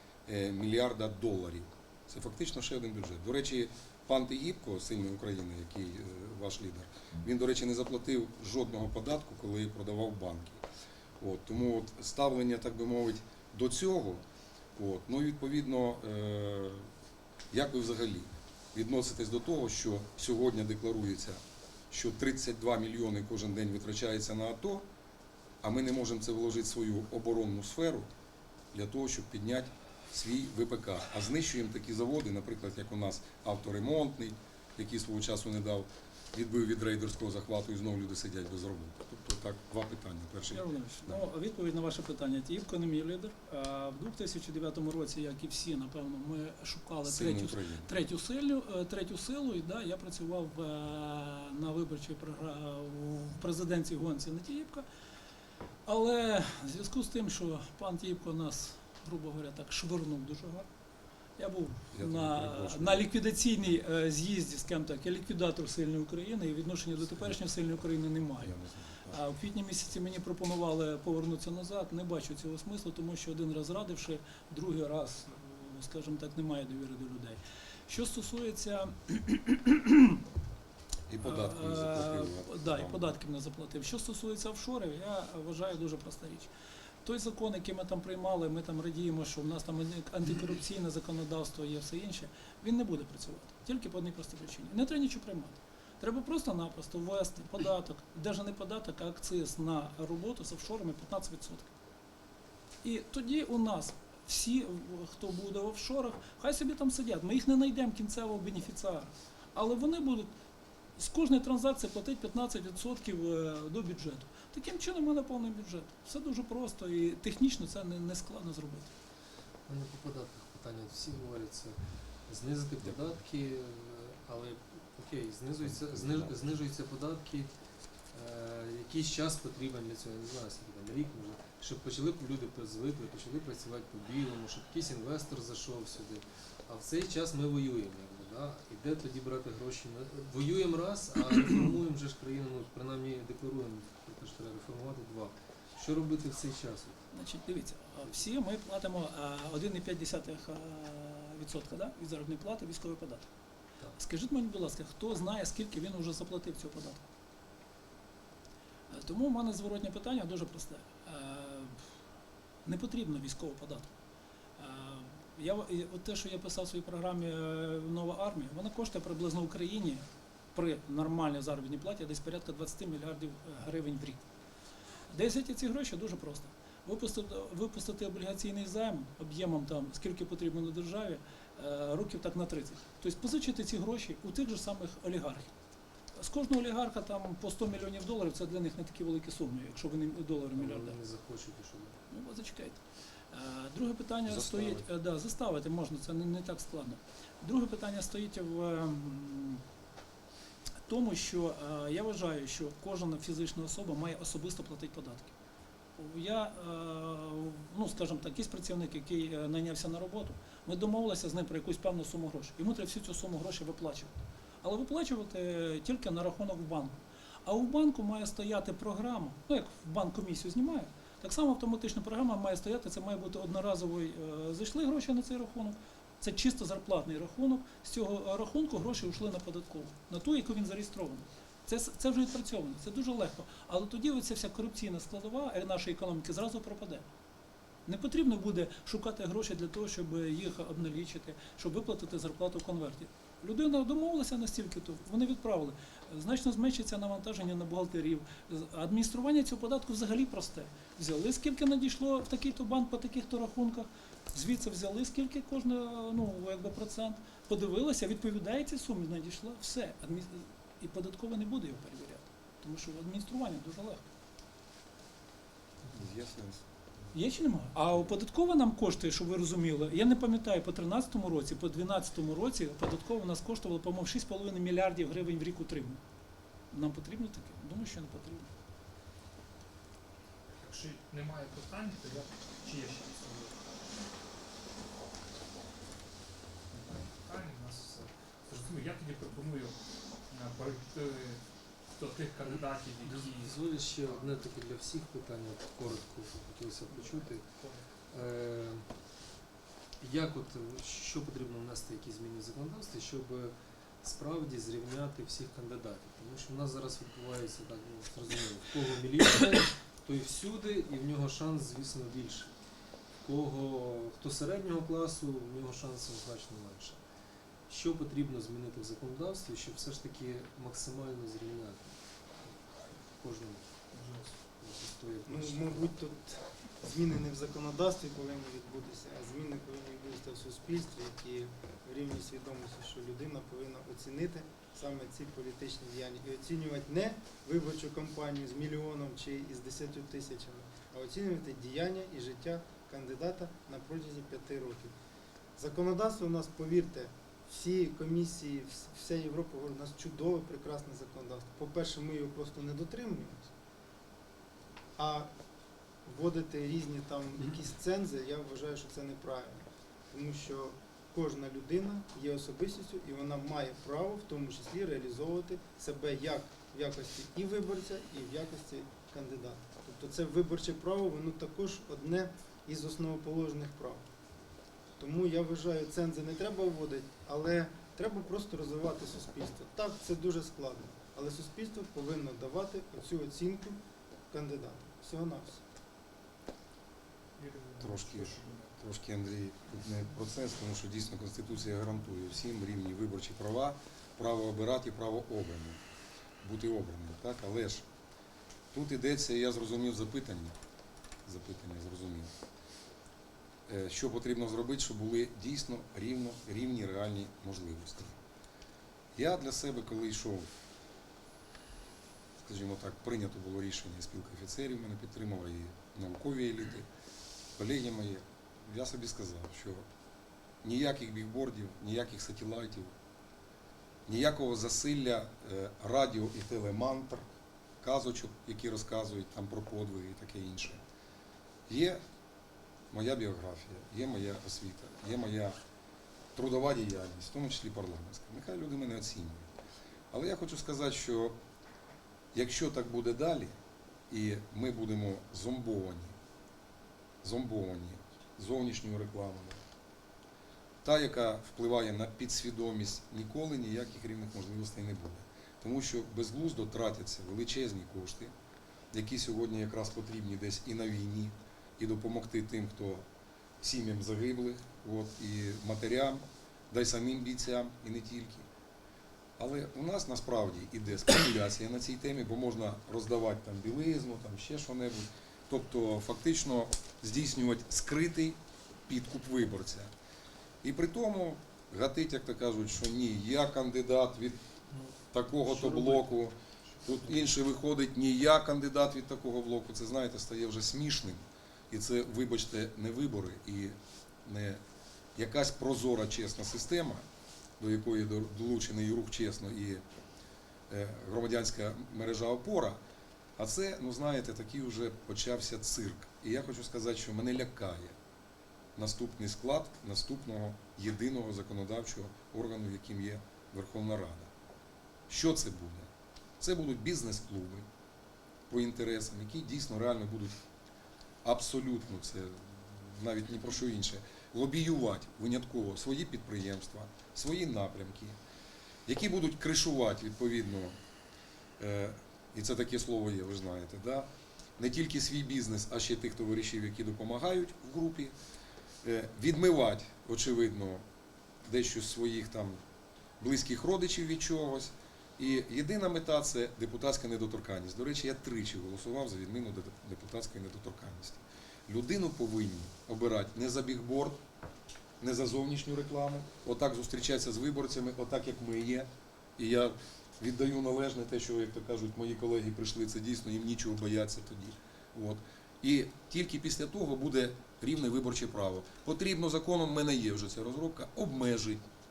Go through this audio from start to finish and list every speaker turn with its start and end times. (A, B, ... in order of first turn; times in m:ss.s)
0:00.2-0:10.6 A
0:11.2-0:14.2 A
0:14.8-0:16.9 A
0:17.5-0:24.8 A
0:25.6-0:28.1 A
0:28.7-0:41.3 A
0:40.5-0:54.8 B
0:47.0-0:48.0 A
0:55.8-1:00.7 B
1:01.4-1:08.5 B
1:01.9-1:03.1 A
1:08.4-1:09.2 A
1:09.1-1:20.2 B
1:21.1-1:23.2 A
1:21.2-1:26.5 B
1:27.0-1:41.7 B
1:42.8-1:50.3 B
1:51.0-1:58.9 B
1:59.6-2:07.5 C
2:05.6-2:06.3 A
2:08.1-2:27.0 C
2:27.1-2:33.3 B
2:34.0-2:37.0 B
2:38.9-2:41.8 B
2:42.6-2:43.9 B
2:44.6-2:54.3 B
2:55.1-3:05.5 B
3:06.1-3:11.0 B
3:10.6-3:12.0 C
3:12.1-3:12.8 B
3:13.3-3:19.6 B
3:14.3-3:14.8 A
3:20.8-3:25.3 B
3:26.0-3:57.0 B
3:57.8-4:24.1 B
4:25.9-4:26.6 A
4:27.1-4:36.0 B
4:36.7-4:38.5 B
4:40.5-4:44.0 D
4:46.7-4:49.8 D
4:50.3-4:54.4 D
4:52.4-4:57.5 C
4:57.0-4:57.8 D
4:58.1-4:58.9 C
5:00.0-5:12.5 C
5:13.2-5:17.0 C
5:17.7-5:23.6 C
5:23.9-5:24.4 D
5:24.6-5:25.9 C
5:25.2-5:44.9 E
5:45.6-5:53.5 E
5:55.0-5:55.3 E
5:56.0-6:14.0 E
6:15.0-6:23.8 E
6:24.3-6:25.6 E
6:27.4-6:28.8 D
6:27.8-6:35.8 A
6:36.4-6:37.8 A
6:38.7-6:40.6 A
6:41.2-6:42.3 A
6:43.7-6:48.2 A
6:49.1-6:50.5 A
6:52.4-6:56.9 A
6:57.6-6:59.8 A
7:00.6-7:02.9 A
7:04.1-7:07.2 A
7:07.8-7:10.8 A
7:11.7-7:12.0 A
7:12.9-7:15.6 A
7:16.3-7:19.5 A
7:20.1-7:21.4 A
7:22.3-7:23.5 A
7:24.1-7:26.2 A
7:27.2-7:29.6 A
7:30.8-7:38.3 A
7:38.9-7:43.1 A
7:43.6-7:48.5 A
7:49.4-7:59.9 A
8:00.6-8:04.4 A
8:05.1-8:14.6 A
8:05.5-8:06.1 C
8:15.1-8:17.0 A
8:17.6-8:19.8 A
8:20.7-8:22.8 A
8:23.4-8:28.0 A
8:28.8-8:34.3 A
8:35.1-8:37.7 A
8:38.5-8:40.4 A
8:41.2-8:48.2 A
8:48.8-8:50.8 A
8:51.6-8:58.1 A
8:58.8-9:00.8 A
9:01.4-9:02.6 A
9:03.2-9:14.2 A
9:15.0-9:31.6 A